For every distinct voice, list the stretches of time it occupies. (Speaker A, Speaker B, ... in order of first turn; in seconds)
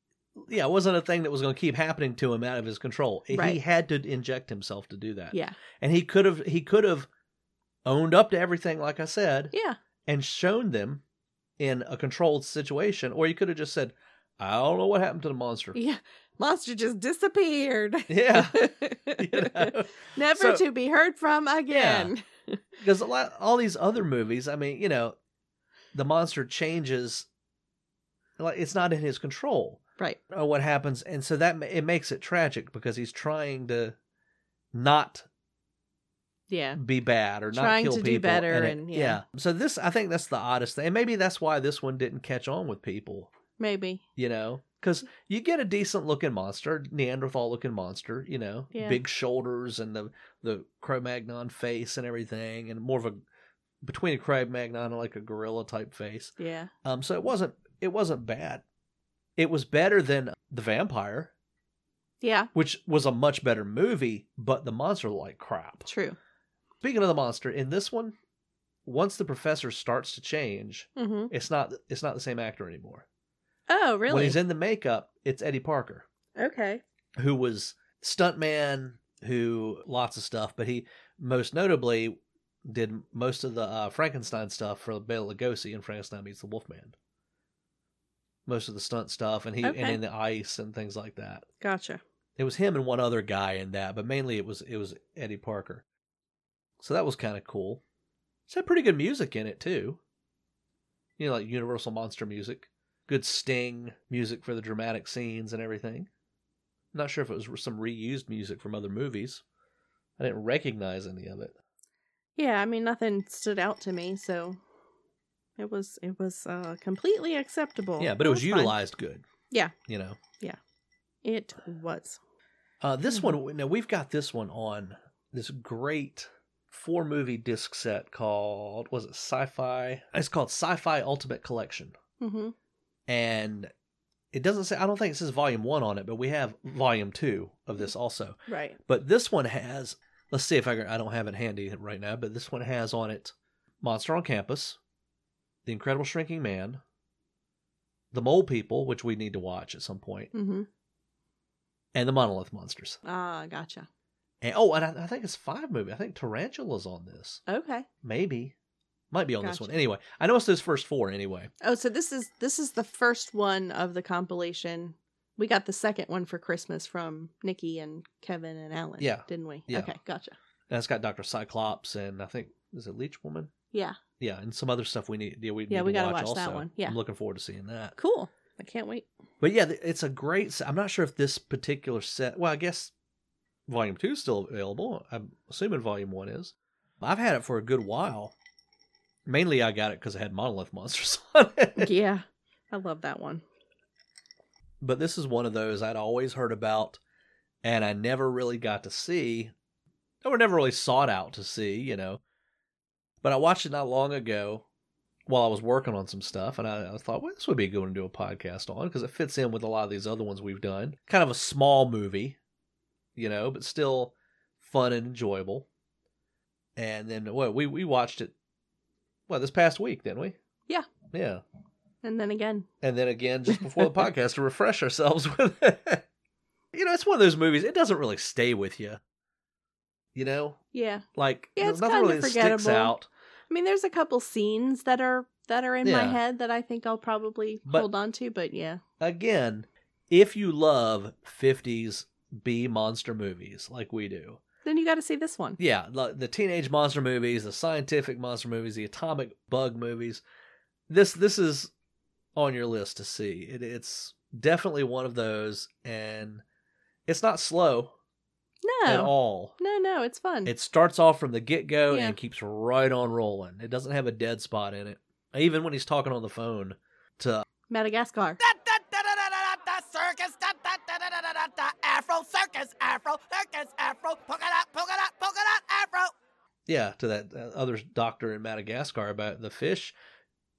Speaker A: 0.4-7.1, 7.8-9.5, 10.1-11.0, 11.6-15.8, 18.1-20.6, 21.7-22.1, 22.8-25.2, 25.9-27.3, 28.4-34.0, 34.7-35.3, 36.8-43.3, 44.2-53.2, 53.8-58.6, 59.4-61.3, 62.5-65.9, 66.8-68.2, 68.8-73.1, 74.1-76.1, 77.2-87.0, 88.5-91.5, 92.4-95.8, 96.8-97.8, 98.5-100.0, 101.2-106.1, 106.9-109.4, 110.2-111.5, 118.0-119.2, 119.9-120.2, 122.8-131.9, 133.1-133.7, 134.3-144.8, 145.7-146.8, 148.1-150.3, 151.9-153.0, 154.4-157.4, 158.0-158.5, 159.1-161.5, 169.0-169.9, 170.7-173.5, 174.2-177.9, 179.4-182.9, 183.7-188.3, 189.3-191.9, 194.8-197.0, 197.6-199.5, 200.2-202.2, 203.2-204.7, 205.3-212.4, 213.2-215.7, 216.8-218.3, 219.3-220.4, 221.1-221.4, 222.8-226.0, 226.7-229.0, 230.2-230.6, 231.2-233.1, 235.8-236.2, 239.0-244.4, 245.6-250.2, 250.9-251.7, 252.4-256.4, 257.1-257.9, 258.9-259.6, 260.4-267.5, 276.7-279.9
Speaker B: 3.3-3.6, 15.8-22.6, 36.5-36.8, 37.5-39.2, 43.6-44.0, 48.7-49.0, 56.4-56.7, 62.2-62.5, 65.9-66.2, 71.0-71.3, 73.7-74.4, 76.4-76.8, 89.6-90.0, 91.6-92.0, 112.4-114.6, 115.6-118.8, 121.2-122.2, 123.1-123.4, 132.2-132.5, 138.5-138.8, 150.3-150.7, 153.1-153.9, 157.5-157.9, 159.4-159.7, 161.6-170.3, 173.7-174.0, 175.7-177.0, 178.0-179.1, 191.8-193.4, 222.0-222.7, 223.5-223.9, 230.7-231.1, 231.6-232.9, 233.5-238.8, 244.7-245.6, 258.6-260.5, 261.9-262.2, 267.7-268.4
Speaker C: 268.4-276.1